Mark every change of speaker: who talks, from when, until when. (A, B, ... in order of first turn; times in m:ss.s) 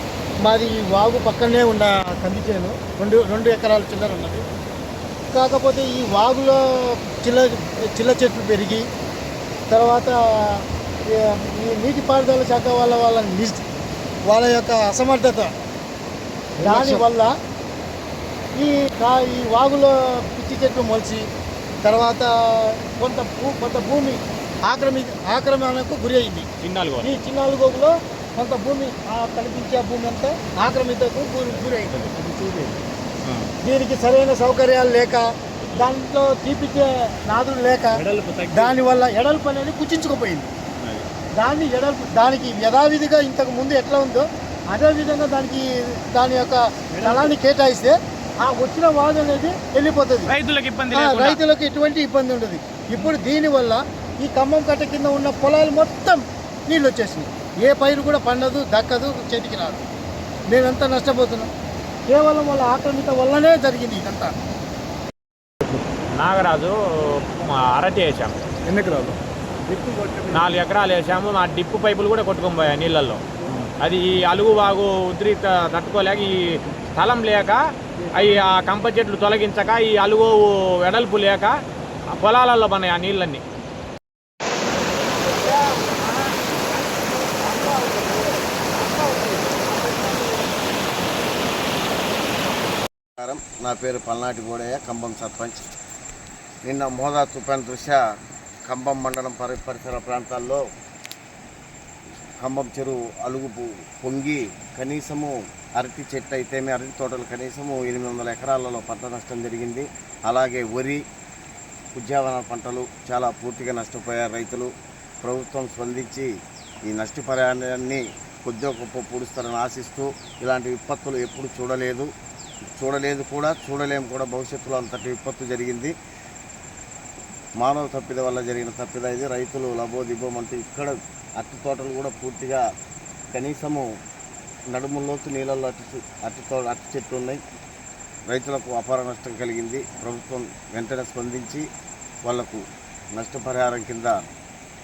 0:00.4-0:04.4 A
0:05.3-0:06.6 A
0:07.2-0:08.8 A
0:09.7-0:13.6 A
0:14.3-0:15.5 A
0:16.6-0:17.3 A
0:18.6-0:21.2 A
0:21.8-0:26.5 A
0:26.6-0:27.1 B
0:27.0-0:32.1 A
0:32.2-0:32.8 C
0:33.2-0:33.5 B
0:33.6-0:40.5 A
0:38.0-0:38.8 C
0:41.4-0:50.3 A
0:46.9-0:47.3 C
0:50.3-0:51.4 B
0:50.9-0:59.8 A
1:00.5-1:01.5 A
1:02.1-1:04.3 A
1:06.2-1:08.4 B
1:08.7-1:10.5 C
1:10.3-1:13.2 B
1:13.8-1:21.6 B
1:22.1-1:23.4 B
1:25.4-1:25.9 B
1:27.0-1:30.4 B
1:33.2-1:35.7 D
1:36.6-1:38.0 D
1:38.6-1:40.6 D
1:42.4-1:51.0 D
1:51.9-1:56.3 D
1:56.9-2:02.1 D
2:02.8-2:05.9 D
2:07.6-2:12.7 D
2:13.3-2:13.9 D
2:14.7-2:17.4 D
2:18.3-2:21.7 D
2:22.2-2:24.3 D